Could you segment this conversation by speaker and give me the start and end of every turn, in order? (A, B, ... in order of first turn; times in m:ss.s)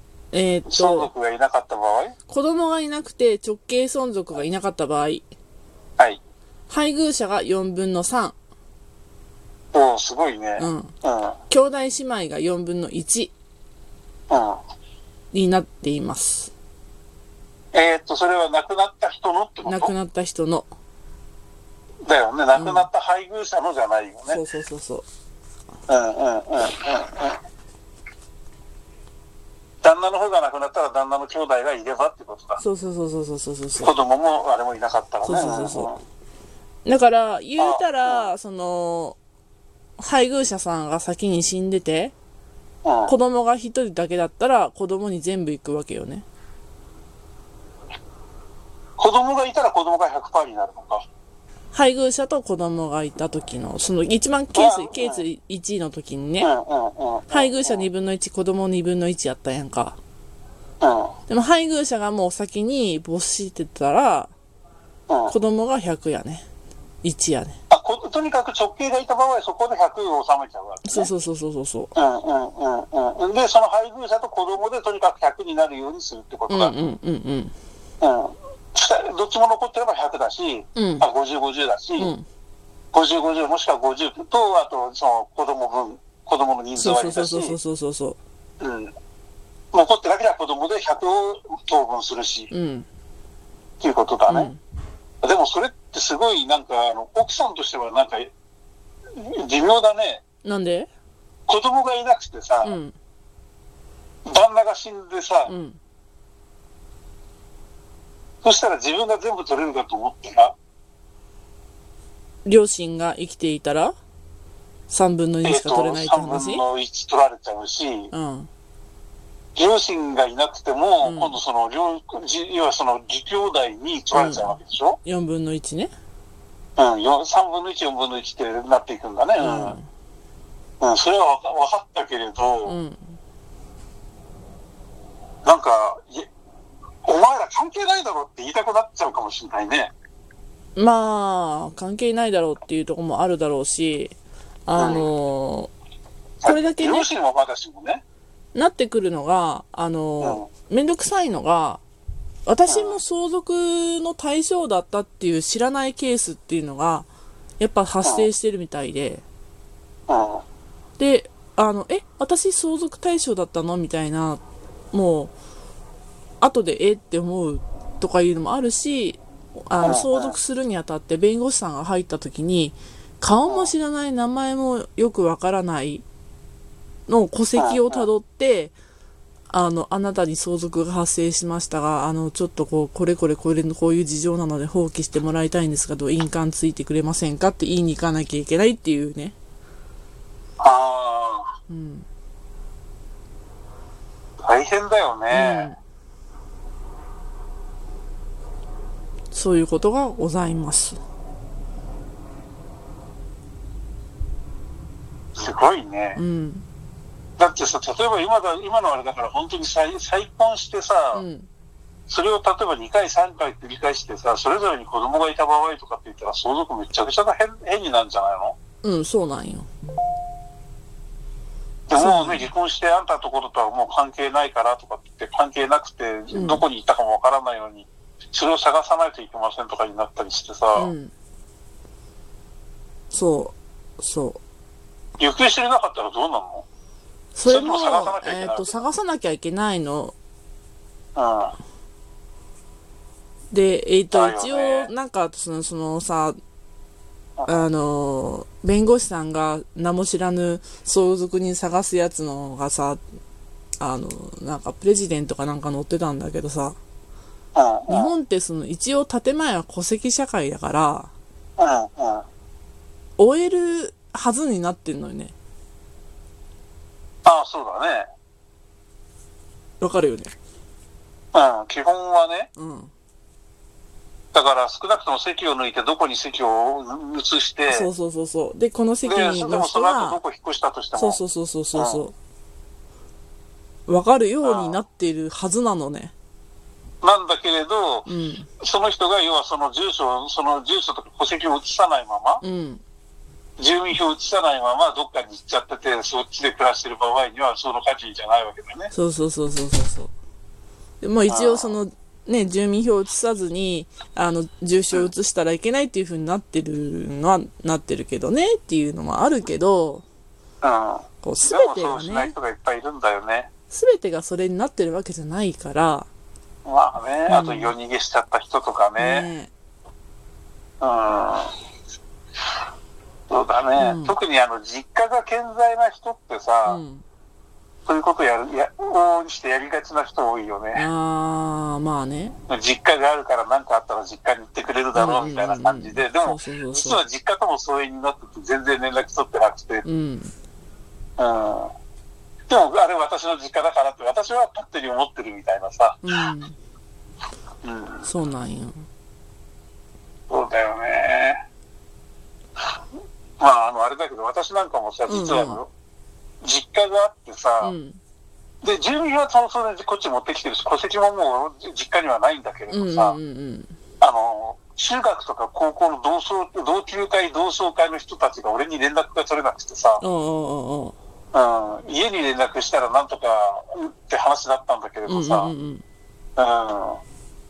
0:00.3-0:01.1 A
0:00.7-0:02.2 B
0:02.3-0:05.2 A
0:06.7-0:08.4 A
0:09.7-0:11.4 B
0:10.6-0:10.9 A
0:11.5-0:13.3 A
0:14.3-0:14.6 B
0:15.3-0:16.5 A
0:17.7-0:19.9 B
0:19.6-0:20.7 A
0:22.0-0:24.4 B
0:22.5-0:22.9 A
0:24.3-0:25.0 A
0:25.9-0:27.4 B
0:29.8-0:32.6 B
0:32.6-0:33.9 A
0:33.8-0:36.0 B
0:35.2-0:35.9 A
0:36.8-0:39.2 A
0:37.6-0:38.3 B
0:40.0-0:42.1 A
0:42.8-0:43.1 B
0:43.1-0:46.2 A
0:49.0-0:51.0 B
0:51.7-0:56.5 A
0:54.5-0:55.2 B
0:56.4-0:57.8 B
0:57.3-1:00.0 A
1:00.8-1:01.1 B
1:01.3-1:04.3 A
1:05.1-1:05.3 B
1:05.3-1:06.4 A
1:07.0-1:07.6 A
1:07.7-1:11.1 B
1:10.8-1:11.9 A
1:12.0-1:16.7 B
1:16.5-1:17.5 A
1:18.0-1:22.1 B
1:20.8-1:21.0 A
1:22.0-1:22.2 A
1:22.9-1:27.5 B
1:26.8-1:28.2 A
1:28.6-1:28.9 B
1:29.7-1:32.5 B
1:32.5-1:32.9 A
1:33.8-1:34.5 B
1:34.3-1:34.6 A
1:35.2-1:38.3 B
1:39.1-1:40.2 B
1:40.4-1:40.9 A
1:41.5-1:42.7 B
1:42.6-1:42.9 A
1:44.2-1:45.5 B
1:45.5-1:45.8 A
1:48.4-1:50.5 B
1:52.4-1:53.9 A
1:54.9-1:56.6 A
1:55.4-1:58.1 B
1:58.1-1:58.5 A
1:59.5-2:05.0 B
2:01.0-2:01.3 A
2:04.1-2:05.9 A
2:06.8-2:09.8 B
2:09.4-2:09.8 A
2:10.8-2:12.8 B
2:12.6-2:13.1 A
2:15.4-2:16.3 B
2:17.0-2:19.9 B
2:20.8-2:24.1 A
2:24.6-2:25.7 A
2:24.8-2:25.0 B
2:26.4-2:28.0 B
2:26.4-2:27.1 A
2:28.5-2:31.8 A
2:30.2-2:30.4 B
2:32.4-2:37.1 A
2:32.7-2:33.0 B
2:37.6-2:39.2 A
2:40.1-2:40.4 B
2:41.0-2:45.3 A
2:46.4-2:56.0 A
2:49.8-2:50.4 B
2:57.1-2:58.7 A
2:57.6-2:58.1 B
2:59.5-3:09.3 A
3:10.6-3:11.5 B
3:11.7-3:12.0 A
3:14.4-3:15.7 B
3:15.3-3:15.8 A
3:19.3-3:21.0 A
3:25.4-3:26.2 B
3:26.2-3:26.6 A
3:27.4-3:31.2 B
3:31.1-3:31.5 A
3:32.1-3:38.6 B
3:38.8-3:39.7 A
3:41.9-3:50.9 B
3:42.0-3:42.5 A
3:46.3-3:46.6 A
3:50.8-3:51.1 A
3:53.1-3:54.4 A
3:55.2-3:56.6 B
3:57.3-4:00.1 A
3:57.4-3:58.7 B
4:01.1-4:01.6 B
4:03.5-4:06.4 A
4:04.1-4:04.9 B
4:07.4-4:07.6 B
4:07.5-4:13.0 A
4:13.8-4:16.8 A
4:17.5-4:18.1 B
4:17.9-4:21.1 A
4:21.6-4:22.2 B
4:23.2-4:25.3 A
4:27.2-4:28.1 B
4:29.8-4:30.3 A
4:31.3-4:32.5 B
4:32.6-4:32.9 A
4:34.3-4:37.9 B
4:37.7-4:40.2 A
4:39.0-4:41.2 B
4:41.0-4:42.1 A
4:41.7-4:42.0 B
4:43.9-4:46.1 A
4:44.4-4:44.8 B
4:47.0-4:48.1 B
4:48.1-4:48.5 A
4:48.6-4:52.4 B
4:52.4-4:52.8 A
4:53.6-4:58.9 B
4:58.9-5:00.1 A
5:01.0-5:10.0 A
5:01.3-5:01.8 B
5:10.6-5:13.5 B
5:11.2-5:12.4 A
5:13.7-5:16.1 A
5:16.6-5:19.3 B
5:17.3-5:17.7 A
5:19.0-5:19.5 A
5:20.8-5:21.5 B
5:23.3-5:26.8 B
5:23.8-5:24.1 A
5:26.7-5:27.0 A
5:27.8-5:30.9 B
5:30.8-5:32.4 A
5:32.5-5:39.8 B
5:34.9-5:37.0 A
5:39.8-5:40.3 A
5:41.2-5:41.7 B
5:42.5-5:46.0 B
5:46.0-5:46.5 A
5:47.6-5:48.1 B
5:48.0-5:48.8 A
5:50.3-5:51.4 B
5:53.4-5:55.7 B
5:55.1-5:55.6 A
5:56.4-5:57.7 B
5:57.6-5:58.0 A
5:58.6-6:03.2 B
6:02.7-6:03.7 A
6:04.0-6:10.0 B
6:10.0-6:10.9 A
6:11.3-6:15.5 B
6:15.1-6:15.8 A
6:16.4-6:17.0 B